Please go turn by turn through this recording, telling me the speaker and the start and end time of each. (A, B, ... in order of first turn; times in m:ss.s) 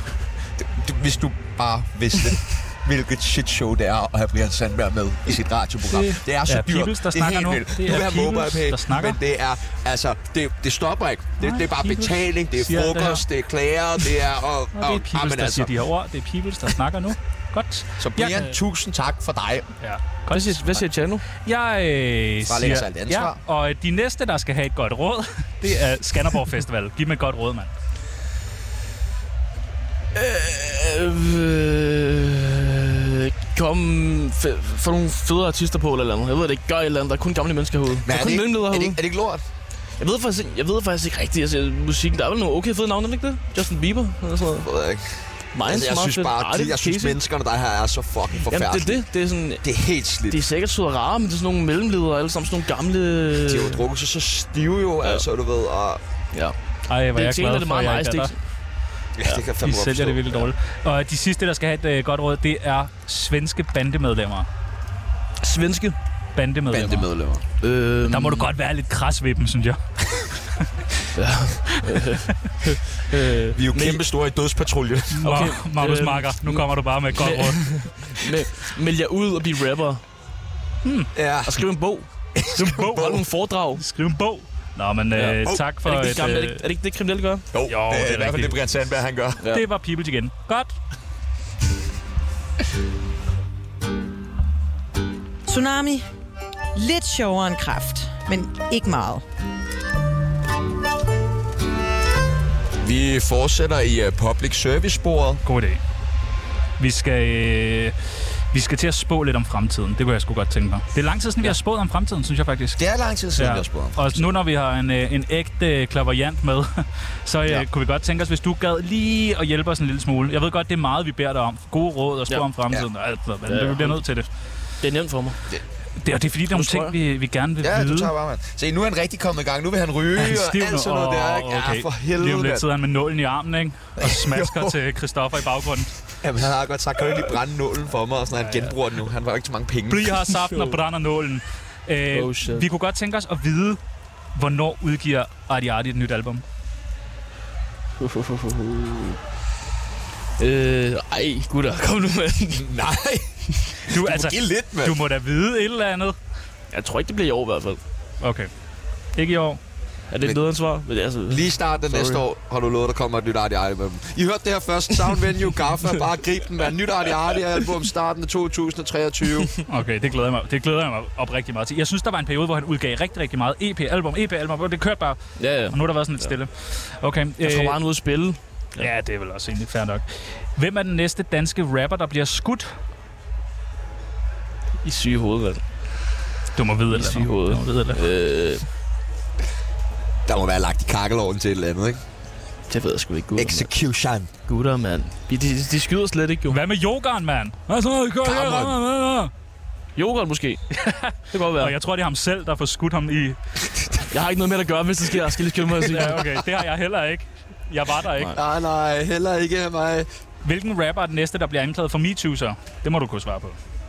0:00.6-0:15.7 A
0:05.9-0:09.2 B
0:11.4-0:13.2 B
0:14.8-0:18.6 B
0:18.0-0:19.7 A
0:19.8-0:20.6 B
0:20.3-0:21.2 C
0:21.4-0:27.7 B
0:22.4-0:23.4 A
0:30.1-0:39.0 C
0:38.0-0:39.4 A
0:40.0-0:44.7 C
0:44.6-0:49.0 A
0:45.5-0:47.2 C
0:48.5-0:49.7 C
0:49.6-0:50.4 A
0:50.3-0:53.8 C
0:53.4-0:56.0 A
0:56.9-0:58.3 B
0:57.1-0:58.4 C
0:59.2-1:00.5 A
0:59.6-1:04.5 B
1:05.4-1:06.0 C
1:06.4-1:07.1 B
1:06.7-1:07.4 A
1:07.6-1:08.5 C
1:08.0-1:09.8 B
1:10.3-1:10.7 B
1:11.1-1:14.0 C
1:11.7-1:12.2 B
1:13.6-1:15.2 A
1:15.2-1:18.3 B
1:15.2-1:20.0 C
1:20.8-1:21.1 B
1:21.2-1:21.6 A
1:21.4-1:22.1 C
1:22.4-1:23.2 A
1:22.6-1:23.2 B
1:23.0-1:23.8 C
1:23.8-1:26.6 B
1:25.2-1:27.5 C
1:27.5-1:29.4 A
1:27.7-1:28.6 B
1:29.4-1:30.7 B
1:35.5-1:36.1 D
1:36.8-1:39.2 D
1:42.8-1:45.4 A
1:45.4-1:45.8 B
1:46.8-1:52.8 B
1:52.8-1:54.2 A
1:53.4-2:04.3 B
2:03.5-2:04.0 C
2:04.8-2:05.5 C
2:06.0-2:08.1 B
2:06.5-2:07.0 C
2:07.6-2:12.6 A
2:10.2-2:16.0 B
2:14.0-2:14.8 A
2:16.2-2:20.2 A
2:18.3-2:18.8 B
2:19.9-2:23.8 B
2:20.4-2:20.8 C
2:22.1-2:22.7 C
2:24.4-2:26.4 B
2:28.0-2:29.2 C
2:30.4-2:32.7 C
2:32.5-2:35.0 A
2:33.8-2:36.2 B
2:36.7-2:37.8 C
2:38.2-2:38.5 B
2:39.2-2:39.6 B
2:40.1-2:42.2 C
2:41.3-2:49.5 A
2:49.7-2:57.8 B
2:55.4-2:56.3 C
2:57.4-2:58.9 C
2:58.8-3:02.7 B
3:04.8-3:05.6 C
3:06.6-3:08.0 B
3:06.9-3:08.6 C
3:10.3-3:12.0 A
3:12.7-3:13.7 C
3:13.4-3:14.3 A
3:14.5-3:16.6 C
3:16.5-3:19.3 B
3:18.2-3:18.8 A
3:20.0-3:20.6 C
3:20.7-3:23.4 B
3:21.3-3:21.8 C
3:24.1-3:26.4 C
3:25.8-3:26.1 A
3:25.9-3:28.4 B
3:28.3-3:30.1 A
3:30.4-3:33.6 B